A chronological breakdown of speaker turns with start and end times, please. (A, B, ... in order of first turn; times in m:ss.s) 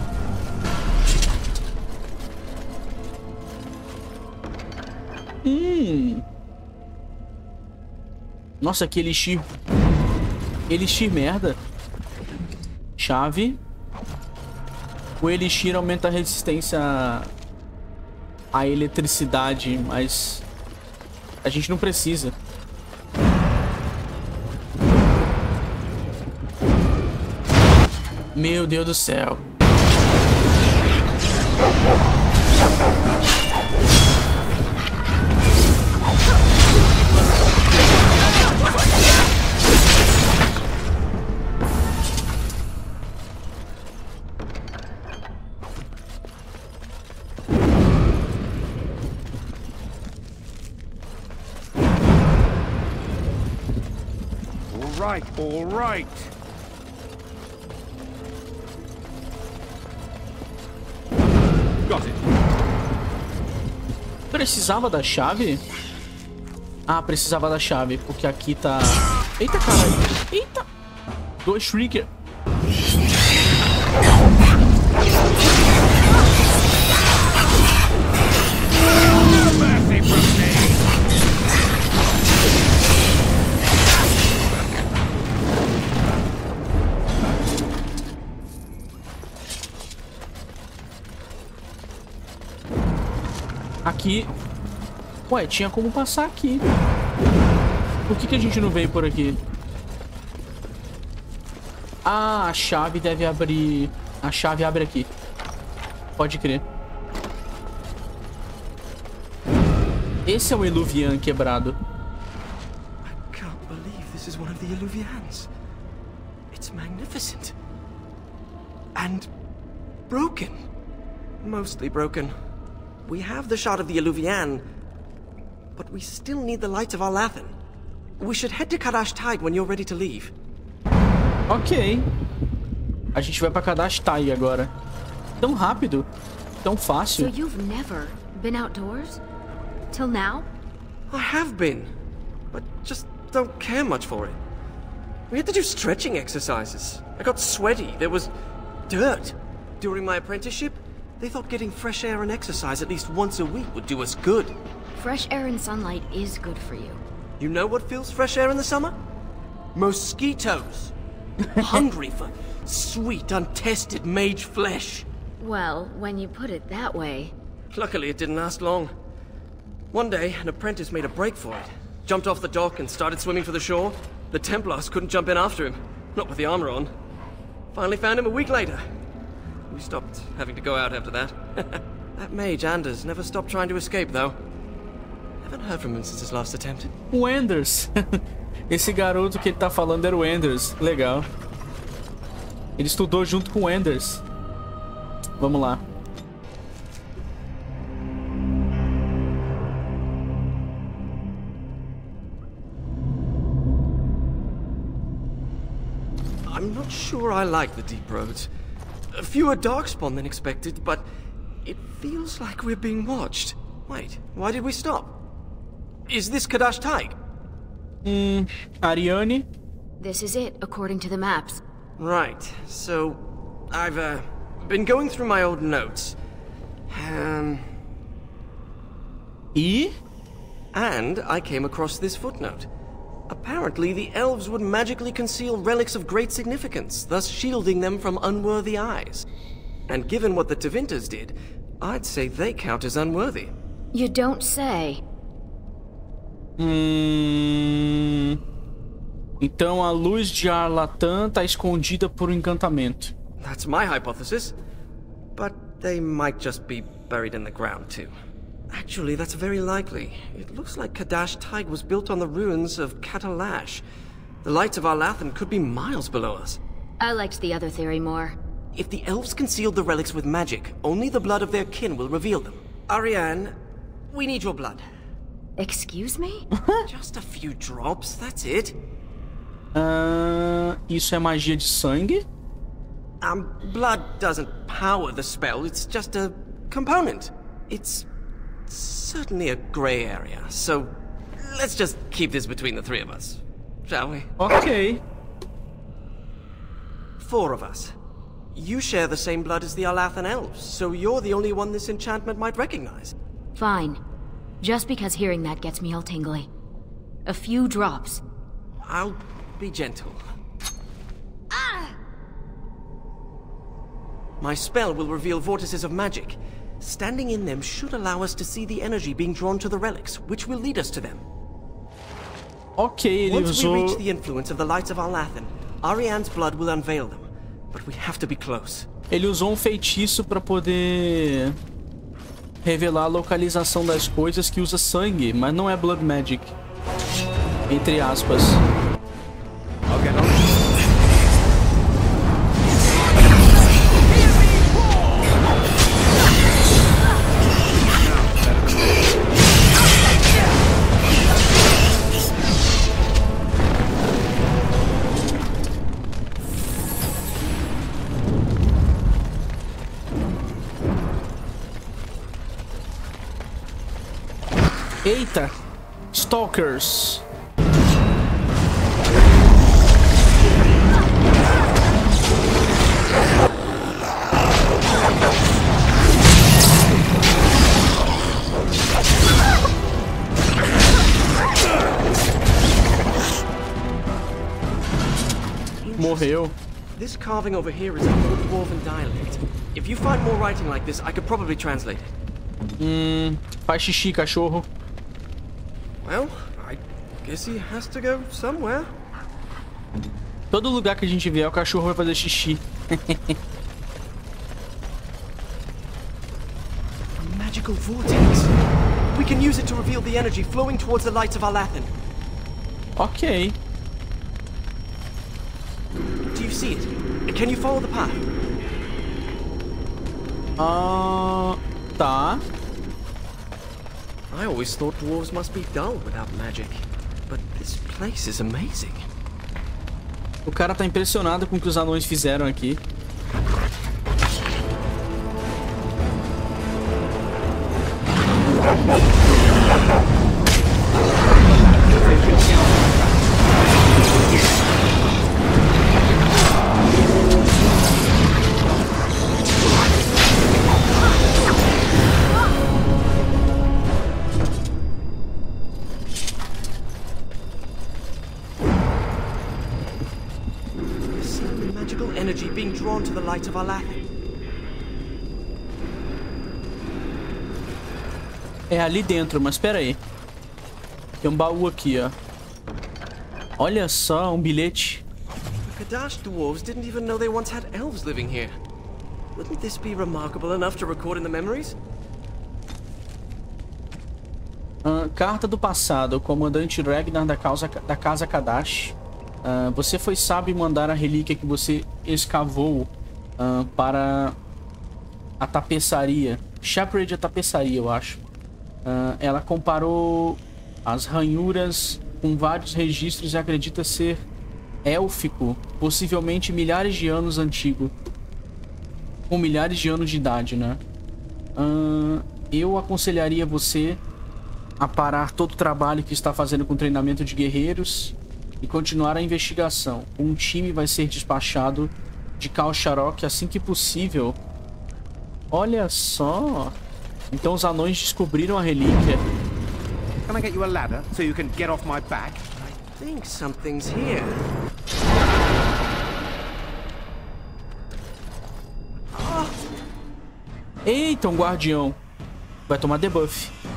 0:05.4-0:06.2 A
0:08.6-0:09.4 A
0:10.7-0:11.6 A
0:13.0-0:13.6 A
0:15.2-0:17.3 A
0:18.5-0:20.4 A
0:21.4-0:22.3 A
0:28.3-0:29.4 A
0:54.7-0:56.3 B
1:01.9-1:02.2 B
1:04.3-1:05.6 A
1:06.9-1:10.6 A
1:11.4-1:12.1 A
1:19.6-1:20.6 B
1:33.8-1:34.3 A
1:35.3-1:36.6 A
1:38.1-1:39.4 A
1:42.0-1:45.1 A
1:46.2-1:46.6 A
1:50.2-1:51.8 A
1:53.0-1:55.5 C
1:56.5-1:57.5 C
1:59.0-1:59.3 C
2:00.1-2:00.6 C
2:01.4-2:02.3 C
2:03.0-2:04.6 C
2:05.8-2:07.5 C
2:08.2-2:10.3 C
2:11.5-2:12.1 A
2:13.1-2:14.7 A
2:15.4-2:16.1 A
2:16.6-2:17.3 A
2:17.1-2:19.2 D
2:19.9-2:20.5 D
2:21.1-2:21.9 C
2:22.5-2:24.4 C
2:25.3-2:28.3 C
2:28.9-2:34.5 C
2:35.0-2:37.0 D
2:37.4-2:39.0 C
2:39.7-2:40.9 C
2:41.6-2:45.0 C
2:45.4-2:47.3 D
2:47.7-2:48.9 C
2:49.9-2:56.9 C
2:57.7-2:58.8 C
2:59.7-3:04.4 C
3:05.4-3:06.9 C
3:07.1-3:11.3 A
3:12.8-3:14.2 A
3:15.4-3:15.8 A
3:26.5-3:28.5 C
3:29.1-3:31.1 C
3:31.6-3:35.2 C
3:36.1-3:37.1 C
3:38.0-3:39.4 A
3:40.0-3:41.6 D
3:42.0-3:46.2 C
3:46.9-3:47.7 C
3:49.5-3:50.0 A
3:50.7-3:52.7 C
3:53.3-3:59.2 C
3:59.9-4:03.5 C
4:03.9-4:05.0 D
4:06.6-4:08.4 A
4:09.4-4:13.1 A
4:13.4-4:14.6 C
4:15.4-4:18.1 C
4:18.7-4:23.8 C
4:24.4-4:26.6 C
4:27.0-4:28.4 D
4:28.7-4:33.5 C
4:34.1-4:34.8 C
4:35.6-4:36.4 D
4:36.5-4:36.9 A
4:36.9-4:38.8 C
4:39.7-4:42.2 A
4:43.2-4:48.0 C
4:48.7-4:54.3 C
4:54.4-4:55.0 A
4:57.2-4:57.9 C
4:58.5-5:03.1 C
5:03.6-5:04.0 D
5:04.6-5:06.5 D
5:07.2-5:08.2 D
5:08.8-5:10.2 C
5:14.4-5:21.2 C
5:22.8-5:24.0 A
5:23.2-5:28.9 C
5:29.1-5:31.6 A
5:32.6-5:36.5 A
5:37.7-5:38.6 A
5:39.9-5:40.6 B
5:47.9-5:49.2 B
6:05.0-6:05.5 A
6:06.1-6:07.2 A
6:25.8-6:26.3 C
6:26.0-6:26.5 A
6:27.0-6:32.1 C
6:32.8-6:34.7 A
6:36.0-6:38.9 C
6:40.5-6:43.4 A
6:47.2-6:48.5 C
6:49.1-6:51.9 C
6:53.0-6:53.6 A
6:56.3-6:58.2 C
7:00.6-7:02.4 A
7:04.3-7:09.1 C
7:10.4-7:12.8 A
7:22.0-7:22.9 B
7:41.1-7:44.1 C
7:48.7-7:50.0 A
7:51.2-7:52.1 A
7:53.6-7:55.0 A
7:55.6-7:58.5 C
7:59.4-8:01.8 C
8:04.8-8:14.4 A
8:15.4-8:18.2 A
8:18.8-8:24.2 A
8:24.8-8:27.9 A
8:29.3-8:30.8 A
8:31.6-8:34.0 A
8:34.8-8:44.4 A
8:45.5-8:46.7 A
8:47.3-8:49.2 A
8:50.2-8:52.4 B
8:52.6-8:54.4 C
8:59.1-8:59.5 C
9:00.8-9:02.0 A
9:02.7-9:03.5 A